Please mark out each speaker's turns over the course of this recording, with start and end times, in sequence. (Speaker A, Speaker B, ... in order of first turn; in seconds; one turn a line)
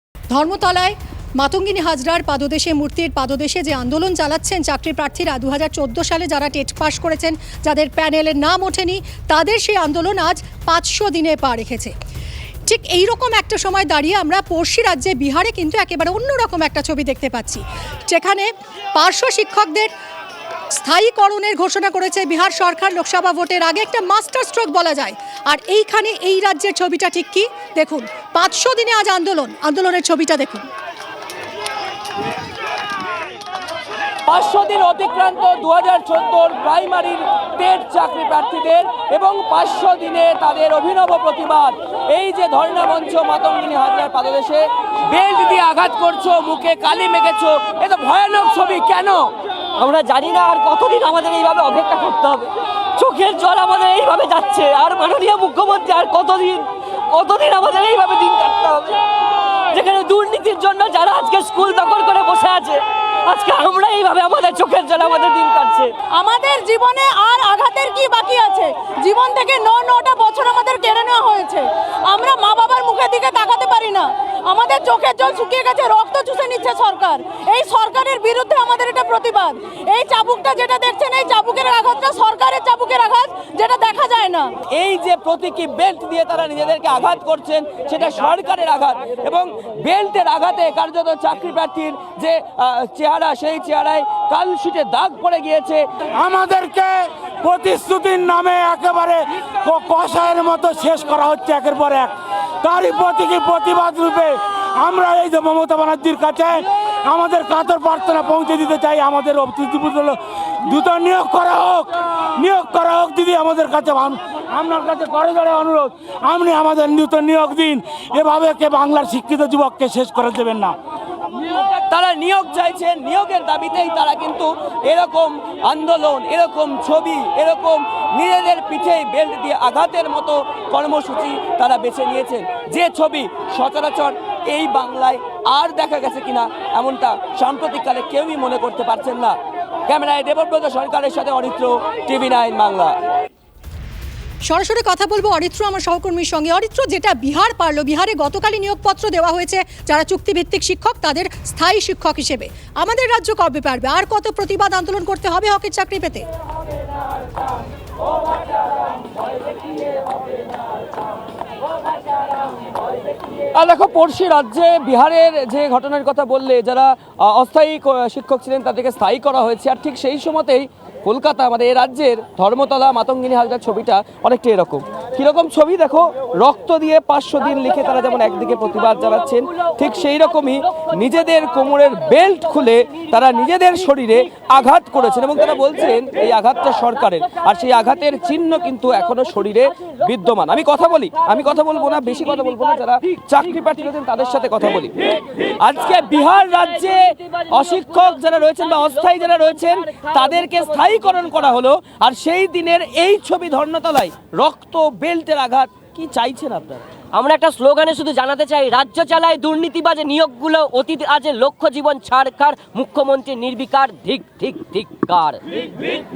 Speaker A: 0.3-11.9
Speaker A: 12.7-19.9
Speaker A: 20.7-30.7
Speaker B: 34.2-49.3
Speaker C: 49.8-59.0
Speaker C: 59.7-65.9
Speaker D: 66.1-84.5
Speaker B: 84.7-95.8
Speaker E: 96.2-120.8
Speaker B: 121.3-139.4
Speaker B: 139.9-143.0
Speaker A: 144.4-156.3
Speaker B: 163.5-194.9
Speaker B: 195.6-206.8
Speaker C: 207.1-215.4